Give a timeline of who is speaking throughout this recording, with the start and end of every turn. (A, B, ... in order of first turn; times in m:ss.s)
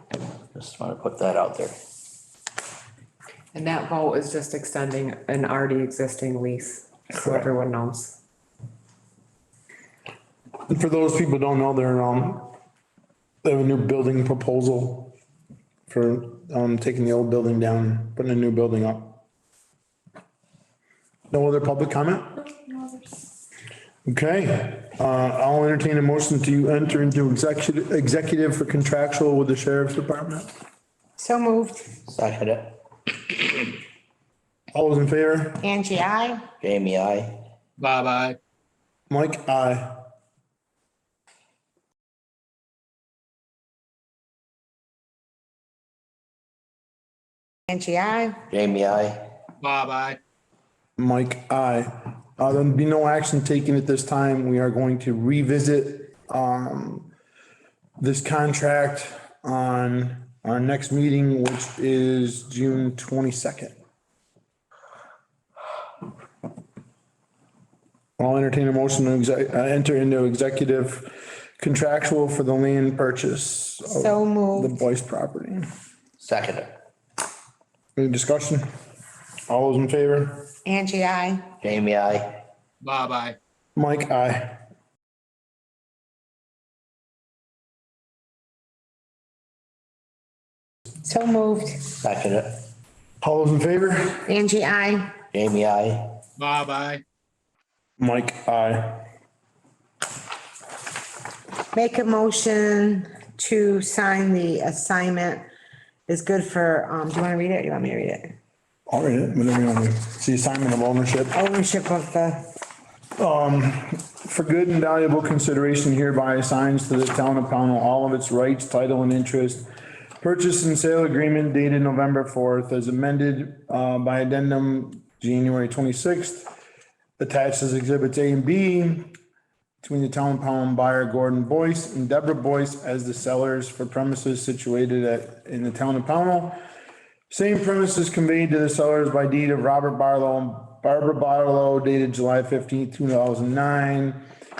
0:00.5-0:01.8 A
0:03.5-0:08.2 B
0:10.7-0:12.5 C
0:13.4-0:15.1 C
0:15.9-0:19.2 C
0:21.3-0:22.4 C
0:24.0-0:30.5 C
0:31.2-0:31.9 D
0:32.1-0:32.8 A
0:34.7-0:35.6 C
0:35.6-0:36.4 D
0:36.6-0:37.5 A
0:37.8-0:38.4 E
0:39.1-0:40.1 C
0:47.7-0:48.4 D
0:48.5-0:49.3 A
0:49.6-0:50.2 E
0:51.0-0:57.1 C
0:58.0-1:03.8 C
1:08.2-1:15.7 C
1:13.9-1:14.7 D
1:16.2-1:16.7 A
1:18.0-1:18.7 C
1:19.5-1:20.5 C
1:20.6-1:21.4 D
1:21.6-1:22.4 A
1:22.8-1:23.4 E
1:23.8-1:24.6 C
1:31.0-1:31.8 D
1:32.0-1:32.6 A
1:33.2-1:34.2 C
1:34.2-1:35.1 D
1:35.3-1:36.2 A
1:36.4-1:37.0 E
1:38.0-1:39.1 C
1:41.7-1:45.4 D
1:46.1-1:48.3 D
1:48.9-1:51.3 C
1:51.3-1:52.5 D
1:53.2-1:59.6 C
2:00.2-2:06.5 C
2:07.2-2:09.2 C
2:09.8-2:16.6 C
2:17.3-2:24.2 C